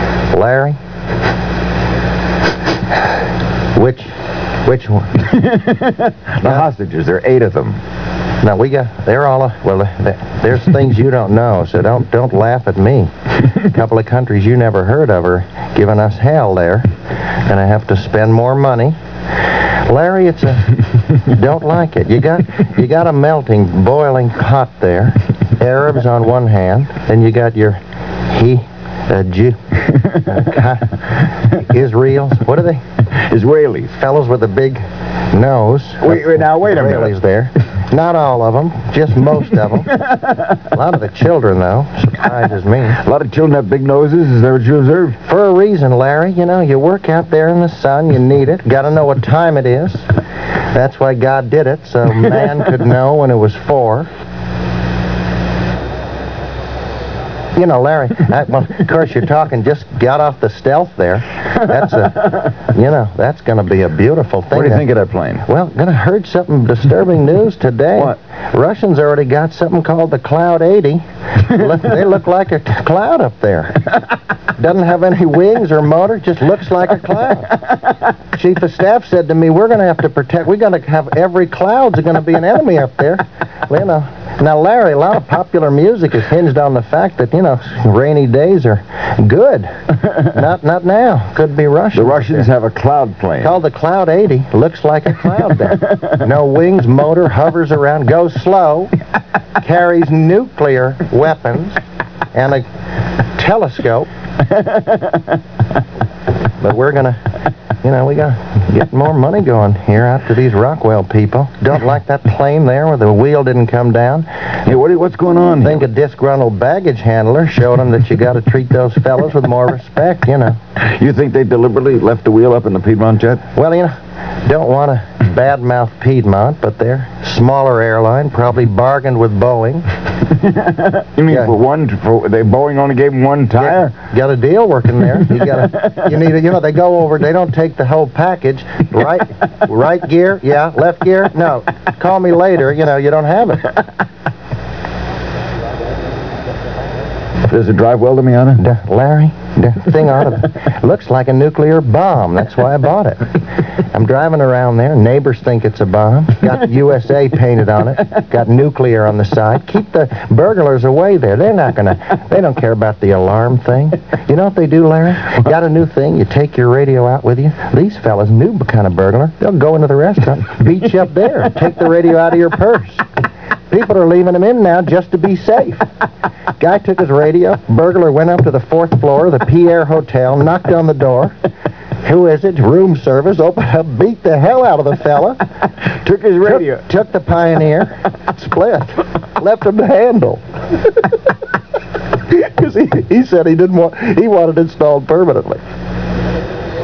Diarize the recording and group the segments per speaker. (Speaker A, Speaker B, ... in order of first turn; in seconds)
Speaker A: 0.3-0.8, 3.7-4.1, 4.6-5.3, 6.4-6.7, 8.4-29.6, 30.1-32.8, 33.9-39.9, 40.6-43.0, 45.2-50.1, 50.7-54.1, 57.5-64.9, 65.4-73.8, 74.5-77.5, 78.3-92.5, 93.4-98.9, 99.6-101.8, 102.3-102.6, 103.3-104.1, 106.6-107.2, 107.8-114.3, 115.6-120.6, 123.5-123.9, 124.4-129.8, 131.3-131.6, 133.6-143.7, 148.6-153.3, 153.9-173.1, 173.7-175.9, 176.6-181.3, 182.0-185.4, 186.4-191.0, 192.3-195.6
Speaker B: 5.3-7.8, 33.0-33.9, 36.0-37.1, 40.0-40.4, 42.9-45.2, 64.5-65.4, 91.9-93.6, 104.5-105.2, 114.7-115.8, 120.8-123.4, 130.3-133.9, 147.4-148.6, 186.0-186.8